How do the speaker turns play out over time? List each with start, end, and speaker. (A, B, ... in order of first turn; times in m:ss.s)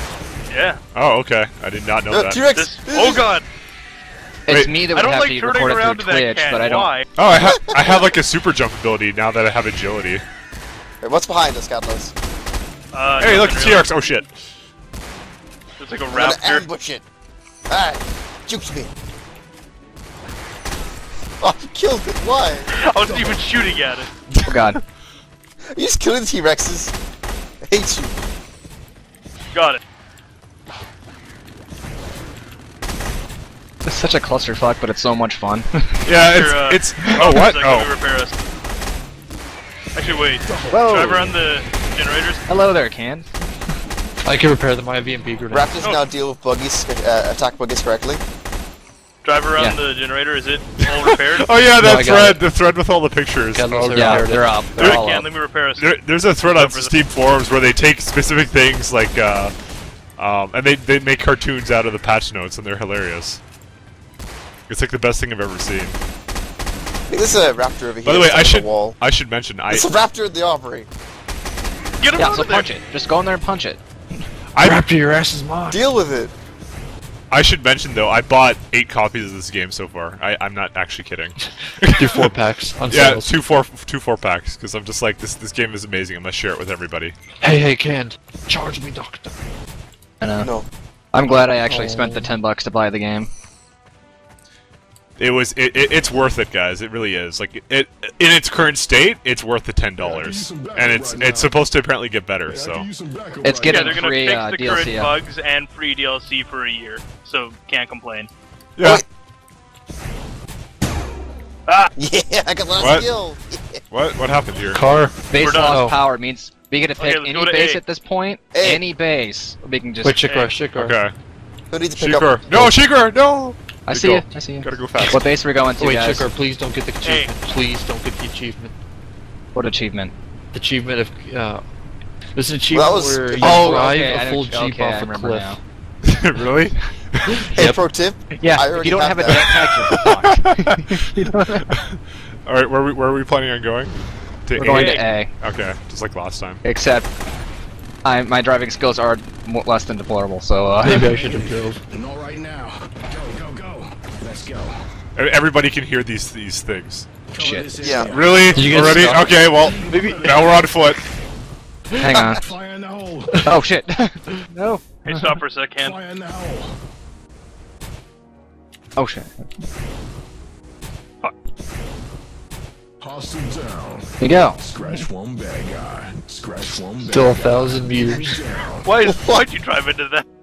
0:00.5-0:00.8 A
0:00.9-0:02.4 B
0:02.1-0:03.3 C
0:02.5-0:03.4 A
0:04.5-0:06.9 D
0:04.5-0:04.8 B
0:04.9-0:07.1 A
0:07.2-0:10.2 B
0:07.4-0:08.1 C
0:11.0-0:12.1 C
0:12.9-0:13.8 A
0:13.2-0:14.4 B
0:15.8-0:16.6 A
0:16.1-0:17.0 C
0:17.7-0:18.9 C
0:21.4-0:22.8 C
0:22.7-0:24.1 A
0:24.3-0:24.8 B
0:24.4-0:24.8 D
0:25.7-0:26.9 C
0:27.6-0:28.2 C
0:29.5-0:29.8 A
0:33.9-0:36.0 D
0:36.0-0:37.9 B
0:36.3-0:38.4 A
0:40.0-0:42.4 A
0:40.4-0:40.9 E
0:40.7-0:41.4 D
0:42.5-0:43.3 D
0:44.2-0:45.8 F
0:45.5-0:48.2 C
0:49.2-0:51.5 A
0:50.8-0:55.0 B
0:51.8-0:52.4 F
0:53.6-0:55.3 F
0:53.9-0:55.0 D
0:54.8-0:56.9 A
0:55.8-0:59.5 B
1:00.2-1:03.4 B
1:04.7-1:06.0 B
1:07.1-1:09.0 C
1:08.0-1:09.9 B
1:09.7-1:10.9 C
1:12.0-1:12.7 A
1:12.2-1:14.2 D
1:14.5-1:14.9 B
1:14.6-1:15.8 F
1:15.7-1:16.3 C
1:17.3-1:22.3 B
1:21.8-1:23.3 F
1:22.9-1:27.2 B
1:27.4-1:29.4 F
1:30.2-1:30.5 D
1:30.4-1:30.7 C
1:31.1-1:33.3 D
1:31.6-1:32.3 F
1:35.2-1:42.9 B
1:40.0-1:41.6 E
1:42.5-1:44.0 E
1:43.4-1:45.1 D
1:43.7-1:48.3 A
1:48.8-1:49.0 B
1:52.0-1:53.8 C
1:52.8-1:53.1 B
1:53.9-1:54.8 B
1:54.7-1:56.0 F
1:55.3-2:00.2 D
1:55.4-1:55.9 A
1:57.0-1:57.8 A
1:58.5-1:58.8 C
2:00.0-2:01.0 F
2:00.2-2:00.5 A
2:00.8-2:01.1 B
2:01.7-2:02.4 C
2:02.0-2:05.2 B
2:03.9-2:06.2 D
2:05.8-2:08.7 F
2:07.0-2:07.3 A
2:09.5-2:10.1 D
2:10.5-2:11.6 F
2:12.4-2:15.6 F
2:12.7-2:14.0 C
2:13.4-2:15.6 D
2:16.0-2:17.4 B
2:17.4-2:17.8 F
2:17.5-2:19.7 C
2:18.4-2:21.7 D
2:19.3-2:26.6 B
2:24.6-2:25.3 D
2:24.7-2:25.1 A
2:26.6-2:27.1 D
2:28.0-2:31.2 D
2:30.8-2:31.8 F
2:32.3-2:32.7 E
2:34.2-2:34.7 E
2:35.2-2:37.1 B
2:37.4-2:37.8 D
2:37.8-2:38.2 C
2:38.0-2:41.0 B
2:38.5-2:39.3 F
2:38.7-2:39.2 D
2:39.9-2:40.2 F
2:41.9-2:42.3 F
2:42.0-2:42.6 D
2:43.3-2:43.6 F
2:43.4-2:45.4 D
2:45.0-2:46.0 A
2:46.1-2:46.6 E
2:49.0-2:49.3 D
2:53.0-2:58.9 E
2:54.2-2:54.6 D
2:57.1-2:58.4 F
2:58.8-3:00.2 A